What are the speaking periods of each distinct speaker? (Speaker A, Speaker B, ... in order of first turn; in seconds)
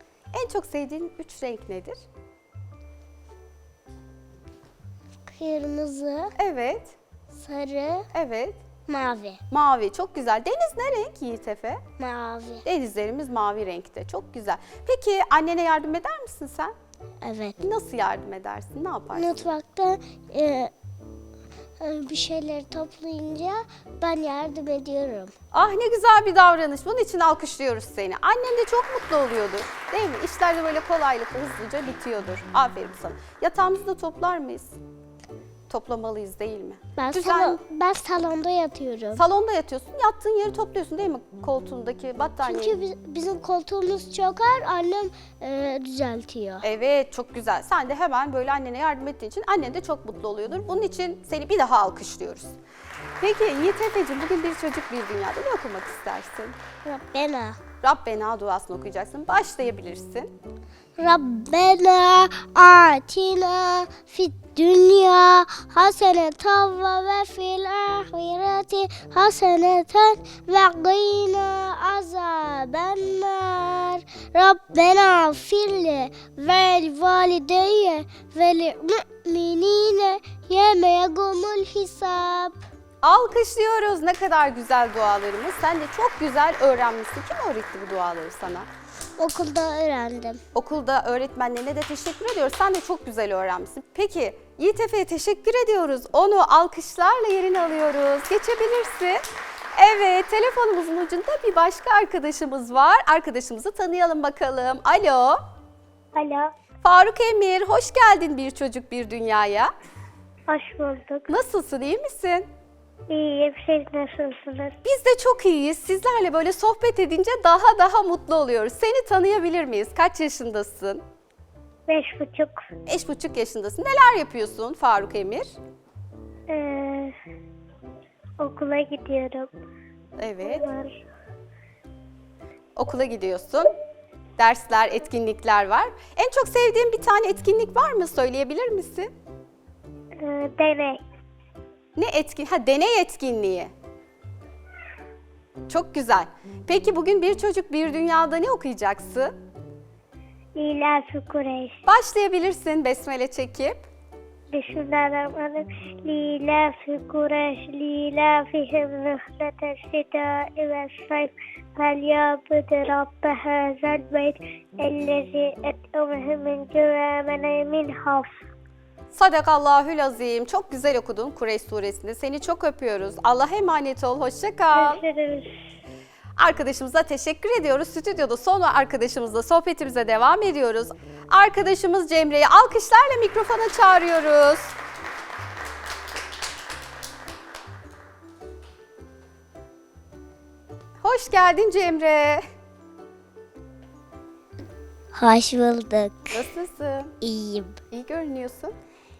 Speaker A: 0.3-2.0, 6.4-6.9, 8.1-8.6, 9.5-11.8, 12.6-16.7, 17.6-19.4, 25.5-34.7, 35.7-37.6, 39.1-42.8, 46.6-52.5, 53.2-56.6, 57.8-60.3, 83.0-88.7, 90.5-99.2, 99.7-105.4, 106.8-109.7, 111.3-112.5, 114.8-121.0, 122.9-125.5, 130.2-130.7, 132.8-133.7, 134.4-139.1, 141.9-143.7, 145.7-149.3, 151.8-153.8, 169.1-175.0, 176.4-184.7, 191.0-192.4, 196.3-197.1, 197.9-198.7
Speaker B: 5.3-6.3, 7.3-8.1, 8.9-9.4, 12.0-12.6, 17.2-17.6, 19.1-20.7, 21.8-25.3, 37.0-39.2, 42.4-46.6, 56.8-57.6, 61.0-82.6, 89.2-90.4, 195.1-196.4, 197.2-197.8
Speaker C: 106.1-106.5, 110.5-111.3, 113.1-114.8, 121.9-122.6, 126.5-127.1, 128.4-129.5, 130.4-130.9, 140.2-141.0, 150.6-151.8, 154.5-168.3, 174.7-175.6